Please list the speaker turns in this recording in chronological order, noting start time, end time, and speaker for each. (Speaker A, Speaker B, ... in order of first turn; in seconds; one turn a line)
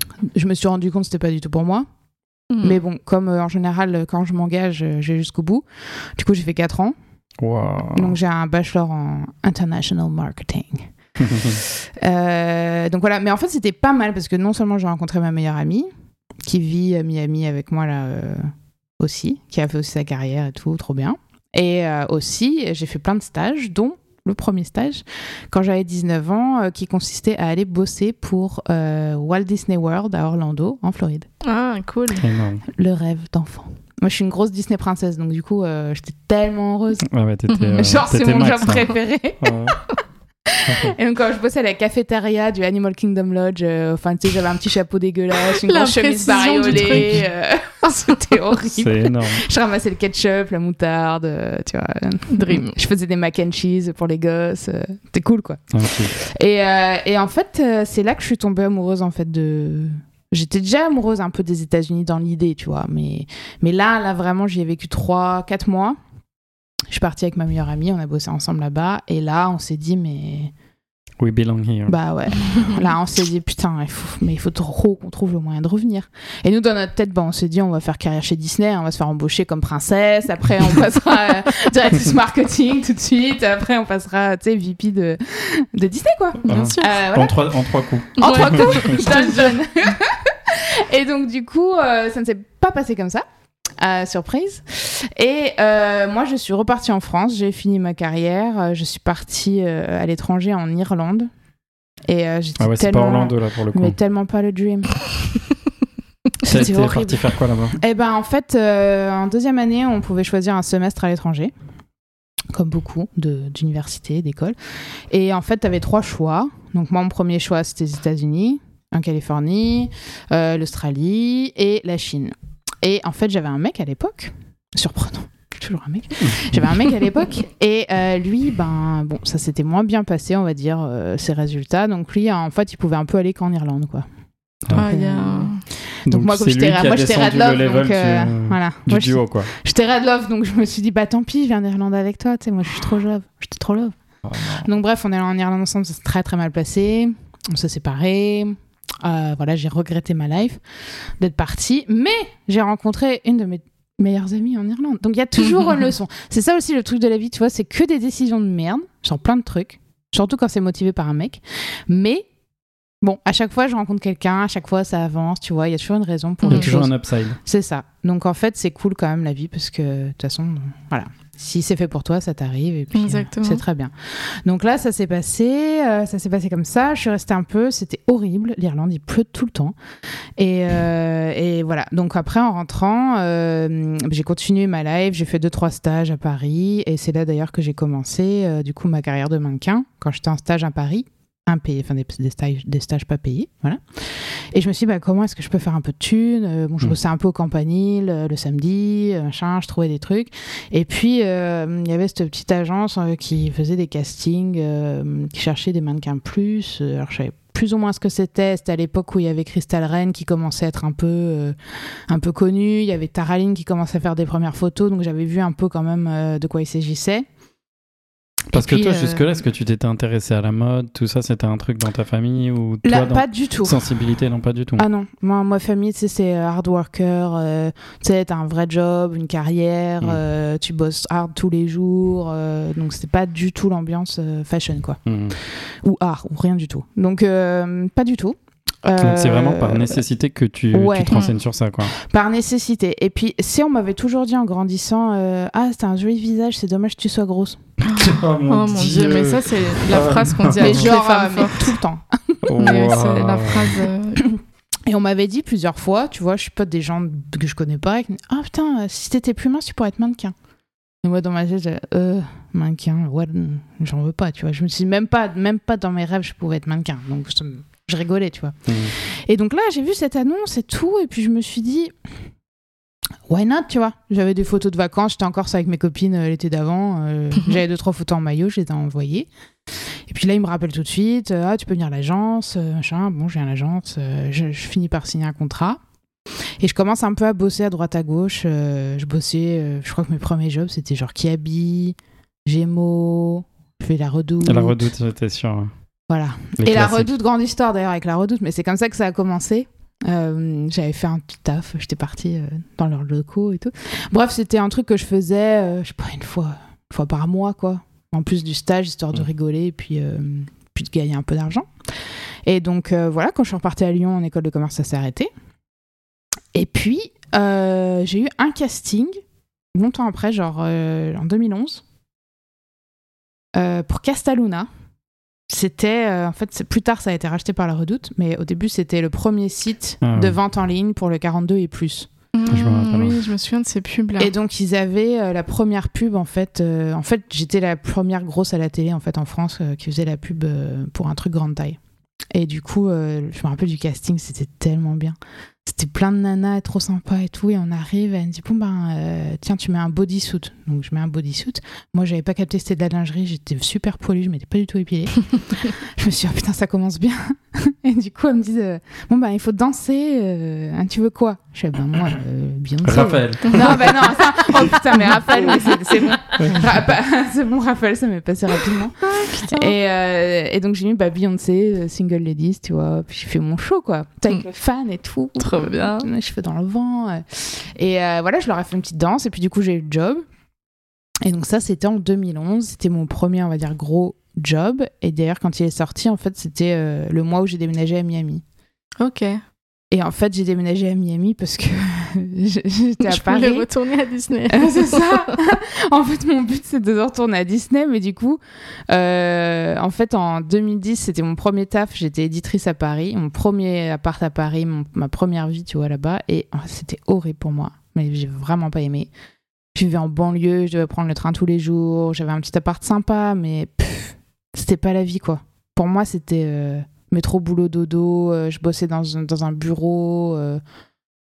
Speaker A: 0.3-1.9
Speaker B: 2.5-2.8
Speaker A: 2.6-5.7
Speaker A: 6.2-7.0
Speaker C: 7.4-8.2
Speaker A: 7.9-10.9
Speaker C: 11.2-11.6
Speaker A: 12.0-15.9
Speaker A: 16.4-31.3
Speaker B: 31.4-32.2
Speaker C: 32.2-32.6
Speaker A: 32.7-37.1
Speaker C: 37.1-39.8
Speaker B: 37.5-38.0
Speaker A: 37.8-39.5
Speaker A: 40.5-66.0
Speaker C: 40.6-41.0
Speaker B: 45.7-47.3
Speaker C: 46.7-47.2
Speaker C: 48.6-49.5
Speaker B: 52.3-52.8
Speaker C: 55.7-56.1
Speaker A: 66.9-70.5
Speaker C: 71.2-72.0
Speaker A: 71.9-87.5
Speaker B: 86.4-87.0
Speaker C: 86.5-89.5
Speaker A: 88.2-93.2
Speaker B: 88.2-89.5
Speaker A: 93.8-101.3
Speaker A: 102.1-105.1
Speaker C: 102.6-104.0
Speaker A: 106.4-111.5
Speaker C: 106.4-107.8
Speaker A: 112.5-114.6
Speaker A: 115.1-134.1
Speaker C: 126.2-126.9
Speaker A: 134.7-144.0
Speaker B: 134.7-135.6
Speaker C: 136.1-139.5
Speaker C: 144.2-144.7
Speaker A: 144.6-150.6
Speaker A: 151.2-162.3
Speaker A: 163.0-179.8
Speaker B: 166.5-166.7
Speaker C: 166.5-167.4
Speaker B: 172.9-173.6
Speaker A: 180.4-211.6
Speaker A: 212.1-217.3
Speaker C: 218.5-224.8
Speaker A: 218.5-219.2
Speaker A: 222.8-223.9
Speaker A: 224.8-240.0
Speaker C: 235.1-235.4
Speaker C: 239.0-241.9
Speaker A: 240.7-241.3
Speaker A: 241.9-247.6
Speaker C: 247.9-250.9
Speaker B: 247.9-251.6
Speaker A: 250.6-252.8
Speaker C: 252.4-253.8
Speaker B: 252.6-254.2
Speaker A: 254.2-260.3
Speaker A: 261.0-271.9
Speaker C: 268.7-268.9
Speaker A: 273.3-279.3
Speaker A: 280.1-285.8
Speaker A: 286.6-294.9
Speaker C: 294.4-295.7
Speaker A: 296.1-311.7
Speaker C: 296.6-297.1
Speaker A: 312.5-315.3
Speaker A: 316.5-319.2
Speaker A: 319.8-321.8
Speaker A: 323.6-324.7
Speaker A: 325.5-332.1
Speaker C: 330.0-330.4
Speaker B: 332.3-334.3
Speaker C: 332.5-333.2
Speaker A: 334.2-341.8
Speaker A: 342.3-380.2
Speaker C: 362.8-364.7
Speaker B: 365.1-365.8
Speaker C: 366.4-366.7
Speaker B: 369.1-369.7
Speaker B: 375.4-376.1
Speaker A: 381.2-388.4
Speaker B: 389.0-389.4
Speaker A: 389.9-393.7
Speaker B: 393.0-395.3
Speaker A: 394.5-409.1
Speaker A: 409.8-420.6